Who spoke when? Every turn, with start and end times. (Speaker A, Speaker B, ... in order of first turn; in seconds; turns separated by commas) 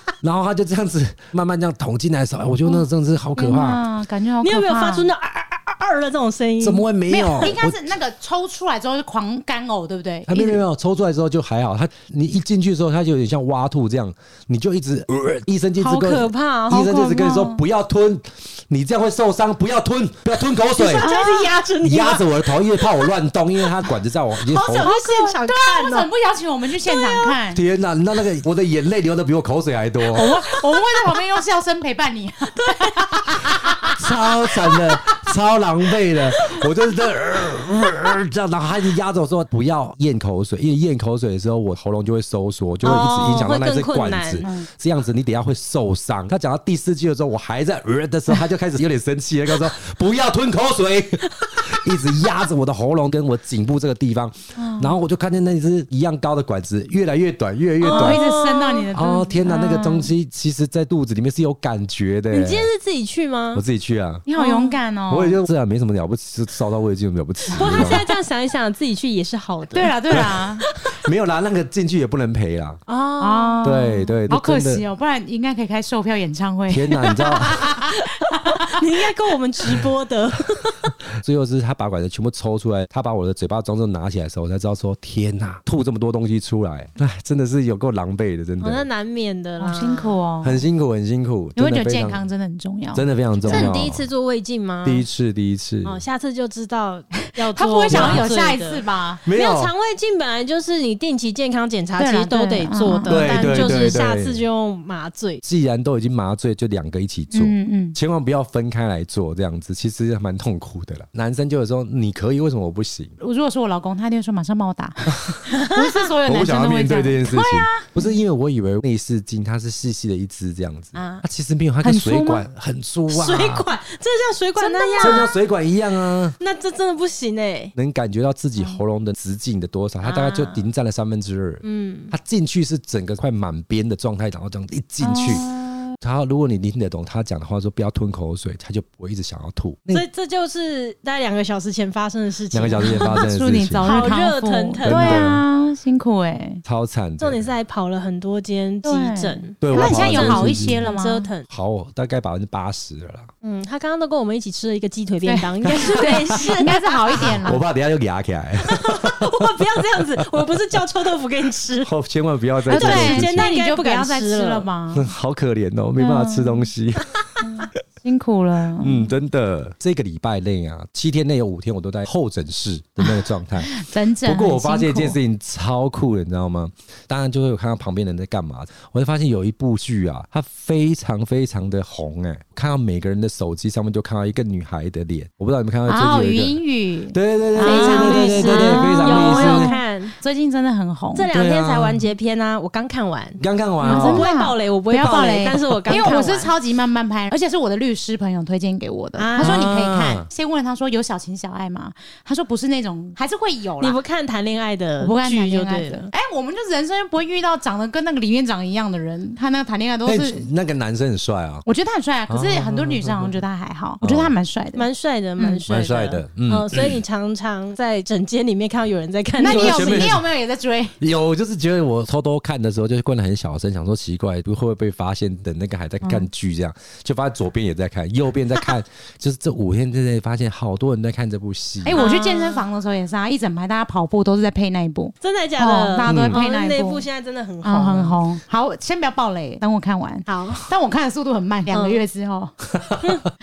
Speaker A: 0.2-3.8, Speaker B: 3.4-5.1, Speaker C: 4.4-6.8, Speaker A: 6.6-7.8, Speaker B: 7.1-10.6, Speaker A: 10.3-21.1, Speaker C: 15.8-16.8, Speaker B: 16.7-17.6, Speaker C: 20.8-22.9, Speaker B: 21.0-21.5, Speaker A: 21.8-24.9, Speaker C: 24.5-26.1, Speaker B: 24.6-27.6, Speaker C: 26.9-27.3, Speaker A: 27.5-30.4, Speaker B: 30.1-34.0, Speaker C: 30.5-30.8, Speaker C: 32.6-33.9, Speaker A: 34.0-58.2, Speaker C: 42.8-44.5, Speaker B: 44.4-44.7, Speaker B: 54.6-54.9, Speaker C: 57.8-58.9, Speaker B: 57.9-60.1, Speaker A: 58.9-62.7, Speaker C: 62.3-63.6, Speaker A: 63.5-64.3, Speaker B: 64.3-65.4, Speaker C: 64.4-64.8, Speaker A: 65.1-68.0, Speaker C: 67.5-70.0, Speaker B: 67.6-68.0, Speaker B: 69.7-70.7, Speaker A: 70.1-72.8, Speaker C: 72.9-73.7, Speaker B: 73.2-78.8, Speaker A: 73.6-74.8, Speaker A: 76.7-77.7, Speaker C: 77.6-80.9, Speaker A: 81.1-88.9, Speaker C: 88.6-90.2, Speaker B: 89.6-90.6, Speaker A: 90.4-92.2, Speaker B: 91.6-93.7, Speaker A: 92.9-94.1, Speaker C: 93.5-95.0, Speaker A: 94.8-96.0, Speaker C: 95.8-105.4, Speaker B: 97.5-99.2, Speaker A: 97.9-98.2, Speaker A: 99.2-99.7, Speaker B: 102.0-104.0, Speaker A: 103.1-104.4, Speaker A: 105.4-113.2, Speaker B: 107.3-108.0, Speaker B: 113.2-118.1, Speaker A: 115.1-115.4, Speaker A: 116.2-123.7, Speaker B: 121.0-121.2, Speaker B: 121.8-122.5, Speaker C: 123.1-125.3, Speaker B: 124.6-125.3, Speaker A: 125.0-126.4, Speaker C: 126.4-127.7, Speaker A: 127.8-135.5, Speaker C: 130.0-130.6, Speaker C: 131.6-132.1, Speaker B: 135.0-135.9, Speaker A: 136.0-140.1, Speaker C: 139.9-143.2, Speaker A: 142.5-144.2, Speaker B: 142.8-146.6, Speaker C: 143.8-145.3, Speaker A: 144.9-145.4, Speaker A: 146.7-147.5, Speaker C: 147.2-151.5, Speaker B: 148.8-151.3, Speaker A: 149.6-150.9, Speaker A: 151.5-153.3, Speaker C: 153.4-157.4, Speaker B: 155.2-157.6, Speaker A: 155.7-156.4, Speaker A: 157.2-160.3, Speaker C: 158.6-161.9, Speaker A: 161.8-163.5, Speaker B: 162.7-165.1, Speaker C: 162.7-164.7, Speaker A: 164.9-167.1, Speaker B: 166.0-166.7, Speaker B: 167.4-169.1, Speaker A: 168.8-186.6, Speaker B: 173.6-175.2, Speaker B: 185.9-191.3, Speaker A: 187.1-189.7, Speaker C: 187.6-190.2, Speaker C: 191.1-196.5, Speaker A: 191.3-192.1, Speaker A: 193.4-194.3, Speaker B: 193.8-204.0, Speaker C: 199.2-200.0, Speaker A: 199.4-200.3, Speaker C: 203.8-206.1, Speaker B: 205.0-210.5, Speaker A: 210.1-211.6, Speaker B: 211.7-215.6, Speaker A: 212.3-213.4, Speaker A: 214.0-214.3, Speaker C: 214.7-220.2, Speaker A: 215.7-217.0, Speaker B: 219.4-221.0, Speaker A: 219.4-220.2, Speaker A: 221.0-232.0, Speaker B: 226.0-226.3, Speaker B: 231.8-237.1, Speaker C: 231.9-232.7, Speaker C: 235.2-238.2, Speaker A: 236.1-236.4, Speaker B: 237.6-242.5, Speaker C: 240.3-240.7, Speaker C: 241.7-242.0, Speaker A: 242.8-243.0